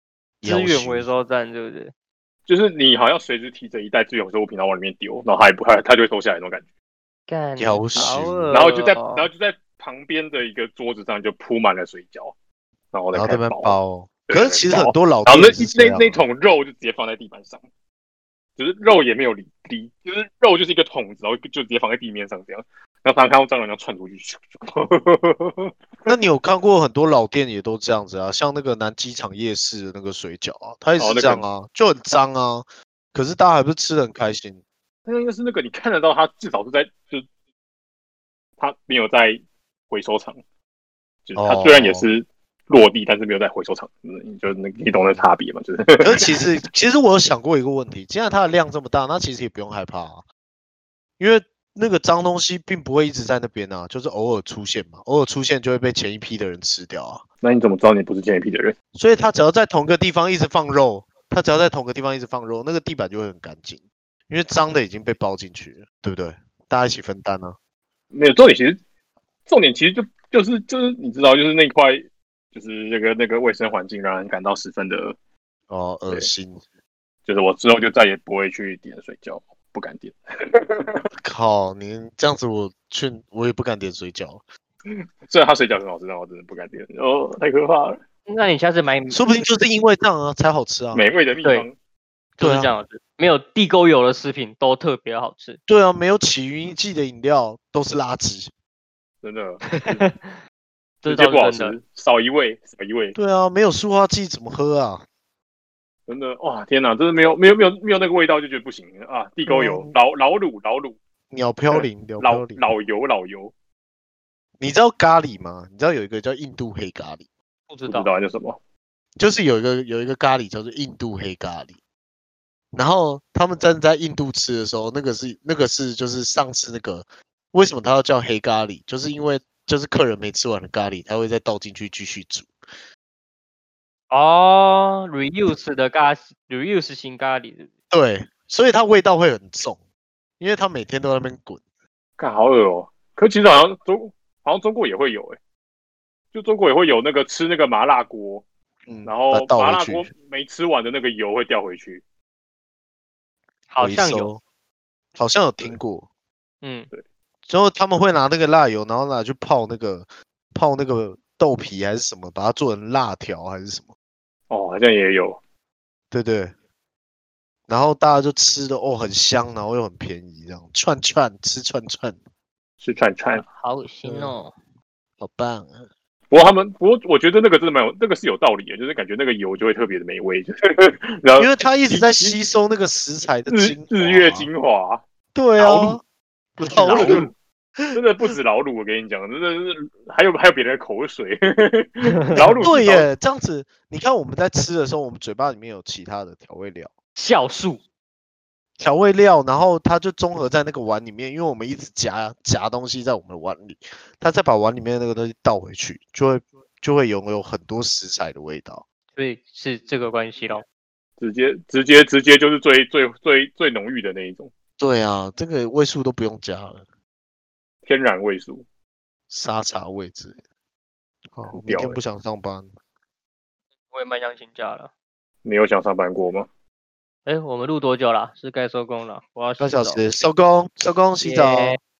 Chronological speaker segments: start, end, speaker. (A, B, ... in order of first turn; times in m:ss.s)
0:00.4-0:01.1 A
0:00.4-0:01.9 B
0:02.5-0:06.6 C
0:07.3-0:09.3 B
0:07.6-0:08.5 A
0:08.0-0:12.3 C
0:12.9-0:17.6 C
0:13.1-0:16.2 A
0:18.6-0:26.1 C
0:26.0-0:34.6 A
0:31.0-0:31.4 C
0:35.1-0:37.3 C
0:38.6-0:40.4 C
0:41.3-0:46.4 C
0:41.3-0:42.1 A
0:46.0-0:50.2 A
0:51.2-0:57.2 A
0:57.4-0:58.7 C
0:58.9-1:07.6 A
1:08.1-1:08.8 C
1:09.5-1:15.2 C
1:15.7-1:16.6 A
1:17.3-1:21.1 C
1:21.2-1:24.4 A
1:24.9-1:28.0 C
1:28.3-1:29.2 B
1:29.1-1:31.1 A
1:30.9-1:31.7 C
1:32.4-1:35.6 B
1:32.4-1:32.7 A
1:35.7-1:38.5 A
1:39.2-1:40.0 C
1:39.7-1:40.4 B
1:41.0-1:41.8 B
1:41.0-1:43.2 C
1:43.1-1:45.0 A
1:46.1-1:51.0 C
1:49.5-1:49.9 A
1:51.3-1:52.6 A
1:51.7-1:53.5 C
1:54.6-1:57.2 A
1:57.7-1:58.1 B
1:57.9-1:58.6 C
1:59.2-2:01.8 A
2:02.7-2:12.5 A
2:14.1-2:17.7 B
2:17.9-2:19.8 A
2:20.4-2:21.6 A
2:22.2-2:25.4 C
2:26.3-2:28.4 C
2:28.9-2:30.1 A
2:29.0-2:32.0 C
2:33.7-2:34.3 B
2:33.8-2:34.4 A
2:35.1-2:36.1 A
2:36.6-2:36.9 B
2:37.5-2:43.9 A
2:44.5-2:45.4 C
2:46.1-2:46.5 A
2:47.7-2:52.2 A
2:52.8-2:53.4 C
2:53.4-2:54.5 B
2:54.0-2:54.4 A
2:55.2-2:55.9 A
2:56.3-3:02.4 C
3:01.4-3:04.5 A
3:03.5-3:05.0 C
3:05.3-3:06.0 A
3:05.6-3:06.0 C
3:06.6-3:07.3 B
3:06.6-3:08.0 A
3:06.7-3:07.3 C
3:07.9-3:13.1 C
3:12.0-3:12.5 B
3:12.4-3:16.9 A
3:17.2-3:17.8 B
3:18.8-3:28.8 A
3:29.2-3:30.6 B
3:31.2-3:34.5 C
3:34.8-3:36.8 A
3:37.8-3:38.6 C
3:39.3-3:40.4 A
3:41.3-3:42.7 A
3:41.5-3:42.0 C
3:43.9-3:44.9 B
3:45.4-3:46.5 C
3:47.2-3:50.0 B
3:49.6-3:51.8 A
3:51.2-3:51.8 B